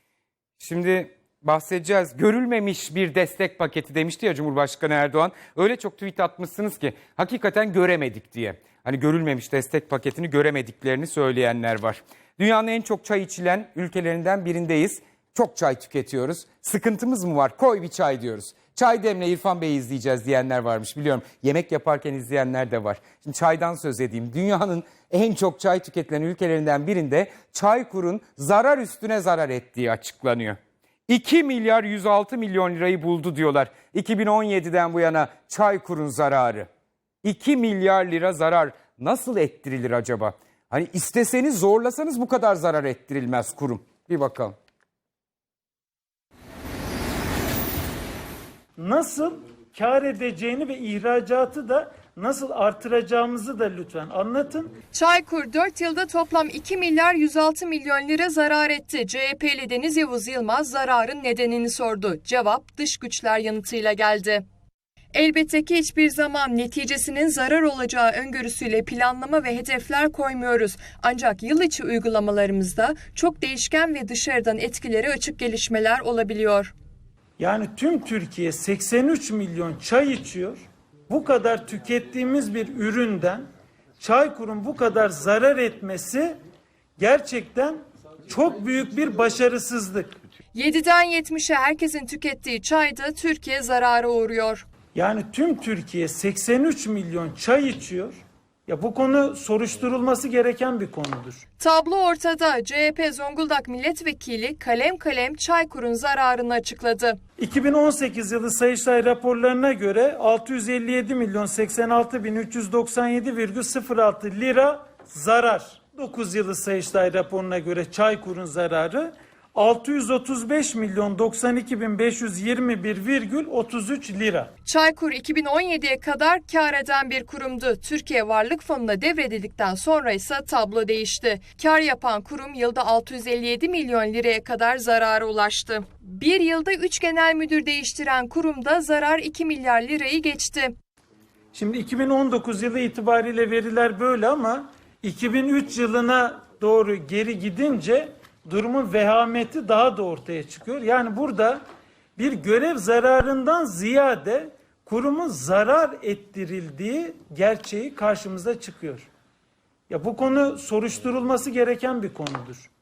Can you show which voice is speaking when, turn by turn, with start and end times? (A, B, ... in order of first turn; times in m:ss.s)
0:00.6-0:30.6 A
0:31.1-0:36.7 A
0:37.2-0:44.5 A
0:48.8-0:54.7 B
0:54.9-1:04.4 C
1:05.1-1:16.7 C
1:17.4-1:23.5 B
1:24.0-1:26.4 B
1:27.0-1:30.2 B
1:30.5-1:34.6 C
1:34.9-1:41.4 B
1:41.6-1:47.2 C
1:47.4-2:04.5 B
2:04.6-2:20.7 C
2:21.5-2:31.6 B
2:32.2-2:39.1 B
2:39.9-2:42.7 B